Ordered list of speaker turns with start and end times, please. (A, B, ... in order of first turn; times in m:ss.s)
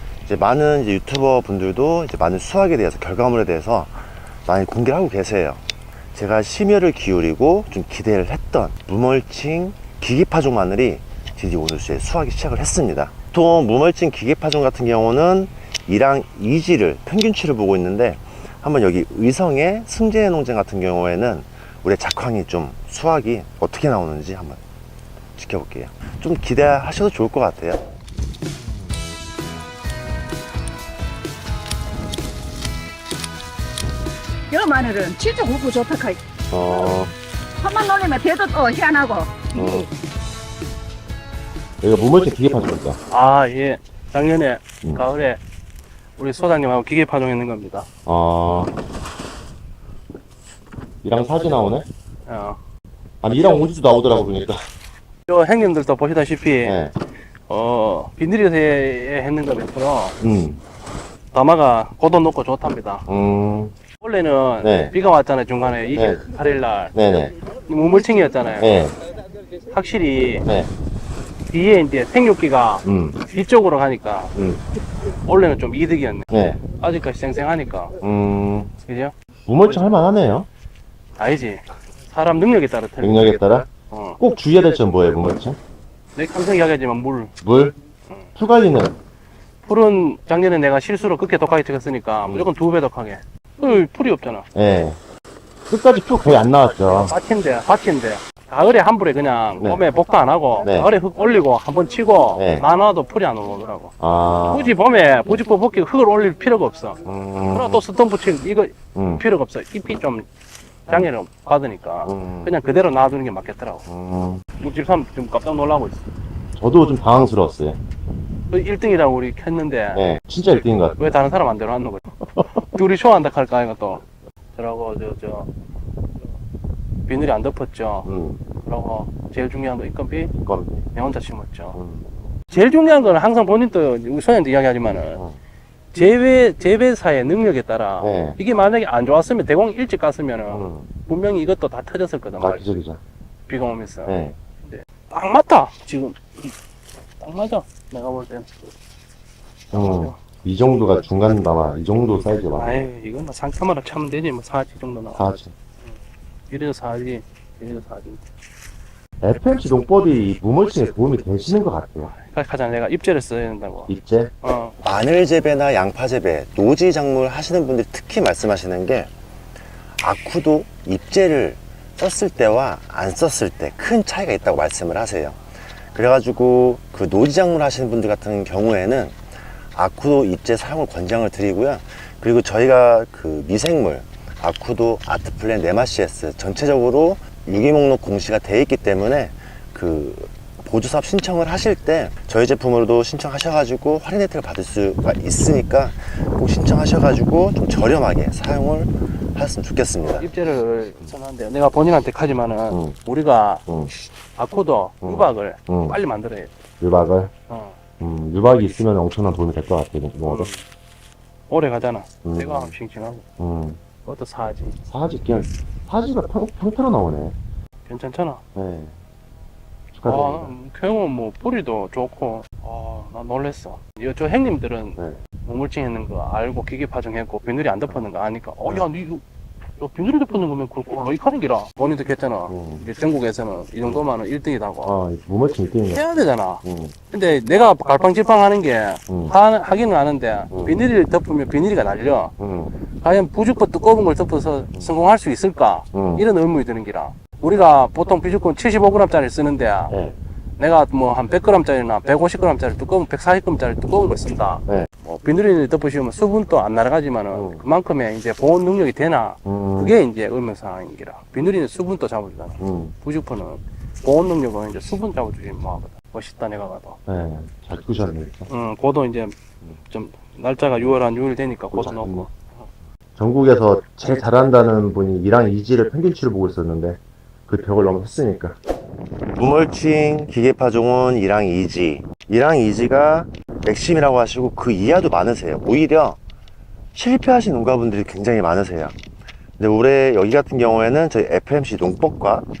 0:00.2-0:05.6 A
0:06.1-0:24.6 A
0:25.4-0:27.8 A
0:34.5-0:36.2 B
0:36.5-0:37.1 A
0:37.6-0:39.8 B
0:39.5-0:39.9 A
0:41.8-0:43.0 A
0:43.1-0:45.4 C
0:46.2-0:47.9 C
0:48.0-0:48.7 A
0:51.0-0:51.8 A
0:52.3-0:52.6 C
0:53.2-0:54.6 A
0:55.3-0:56.8 C
0:56.6-0:56.9 A
0:57.5-1:00.2 C
1:00.2-1:00.6 A
1:01.3-1:03.1 C
1:03.1-1:03.7 A
1:04.0-1:06.9 C
1:04.6-1:04.9 A
1:05.9-1:06.2 A
1:06.9-1:07.3 A
1:07.7-1:08.8 C
1:08.6-1:09.0 A
1:09.7-1:10.4 C
1:10.4-1:10.7 A
1:11.5-1:14.3 C
1:12.8-1:13.2 A
1:14.3-1:14.6 A
1:15.2-1:16.2 C
1:16.3-1:16.6 A
1:16.8-1:17.9 C
1:18.0-1:18.7 A
1:18.8-1:19.1 C
1:19.5-1:20.5 A
1:21.2-1:24.2 C
1:23.0-1:25.6 A
1:26.1-1:27.3 C
1:27.4-1:27.8 A
1:28.4-1:29.0 A
1:29.6-1:34.4 C
1:34.5-1:35.0 A
1:35.7-1:37.1 A
1:36.9-1:43.9 C
1:39.6-1:39.8 A
1:40.6-1:40.9 A
1:42.4-1:42.6 A
1:44.0-1:44.7 A
1:44.4-1:50.3 C
1:47.0-1:47.8 A
1:48.9-1:49.2 A
1:50.9-1:53.8 C
1:52.0-1:52.5 A
1:53.9-1:54.4 A
1:54.6-1:56.0 C
1:56.6-1:57.8 A
1:58.5-2:00.0 C
1:59.9-2:01.0 A
2:01.0-2:04.0 C
2:02.2-2:02.6 A
2:04.6-2:05.5 C
2:07.0-2:08.1 C
2:08.0-2:08.4 A
2:08.6-2:10.3 C
2:10.4-2:10.9 A
2:10.9-2:11.8 C
2:11.7-2:12.1 A
2:12.5-2:15.2 C
2:15.1-2:15.4 A
2:15.9-2:22.8 C
2:18.0-2:18.4 A
2:20.5-2:20.9 A
2:22.4-2:23.0 A
2:23.5-2:26.5 C
2:24.0-2:24.4 A
2:27.2-2:28.5 C
2:29.7-2:30.2 C
2:29.7-2:32.8 A
2:32.5-2:35.4 C
2:35.2-2:35.5 A
2:36.5-2:38.2 C
2:39.2-2:42.1 A
2:42.1-2:44.7 C
2:43.9-2:49.1 A
2:50.0-2:55.4 A
2:55.9-2:59.2 A
2:59.7-3:20.3 A
3:20.0-3:23.6 C
3:22.7-3:23.0 A
3:23.7-3:23.9 A
3:24.4-3:26.5 C
3:25.0-3:26.0 A
3:26.8-3:27.3 A
3:27.5-3:27.8 C
3:28.0-3:30.5 A
3:30.2-3:30.6 C
3:31.5-3:33.2 C
3:32.2-3:32.7 A
3:33.4-3:33.8 A
3:34.0-3:34.8 C
3:34.8-3:37.4 A
3:37.9-3:38.4 C
3:38.5-3:38.9 A
3:39.9-3:40.5 A
3:40.0-3:49.2 C
3:49.8-3:54.9 C
3:52.5-3:52.8 A
3:54.8-3:56.0 A
3:55.9-4:02.3 C
3:56.6-3:56.9 A
3:59.1-3:59.3 A
4:00.5-4:00.8 A
4:02.4-4:02.7 A
4:03.0-4:10.0 C
4:05.9-4:06.2 A
4:09.9-4:10.2 A
4:10.6-4:27.0 C
4:17.3-4:17.6 A
4:19.4-4:20.0 A
4:22.6-4:22.9 A
4:27.0-4:28.5 A
4:28.5-4:32.7 C
4:31.7-4:32.3 A
4:33.2-4:38.6 A
4:39.3-4:46.2 A
4:46.9-4:48.9 A
4:49.6-4:52.5 A